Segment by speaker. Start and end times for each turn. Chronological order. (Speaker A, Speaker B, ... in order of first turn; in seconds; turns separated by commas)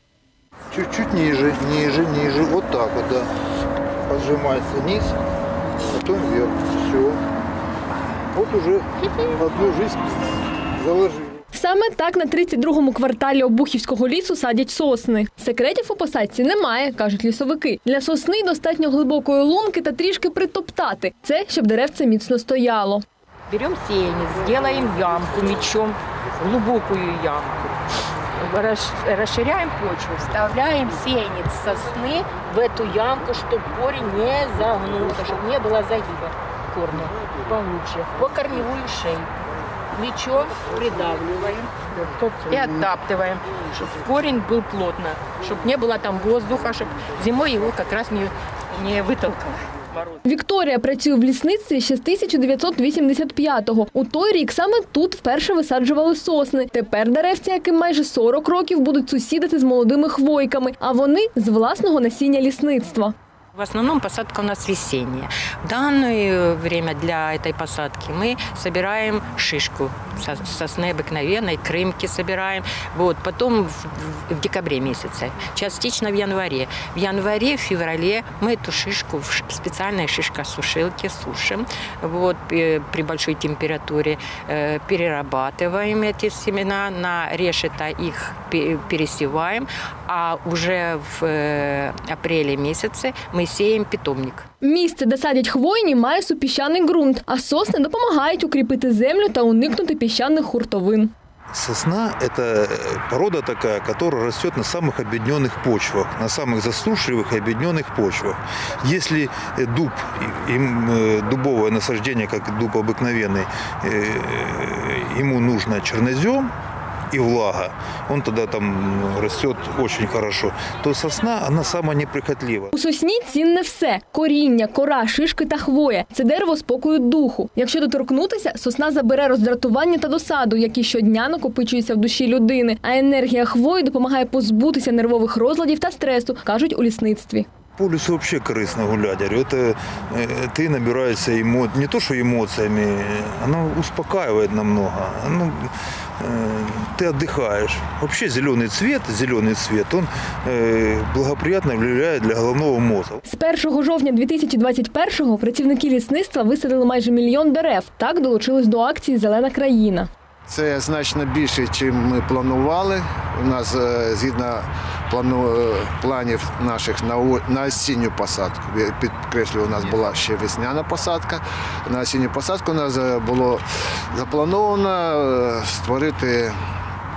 Speaker A: 0.7-3.3, Speaker A: 4.1-5.2, Speaker A: 5.8-7.2, Speaker A: 8.3-10.1, Speaker A: 10.8-11.3, Speaker B: 11.5-23.0, Speaker C: 23.5-27.8, Speaker C: 28.4-39.3, Speaker C: 39.9-50.2, Speaker B: 50.2-63.1, Speaker C: 63.5-94.5, Speaker B: 94.6-101.1, Speaker A: 101.5-116.5, Speaker A: 117.1-122.7, Speaker B: 122.7-137.5, Speaker A: 137.8-153.2, Speaker B: 153.2-160.1, Speaker D: 160.5-176.6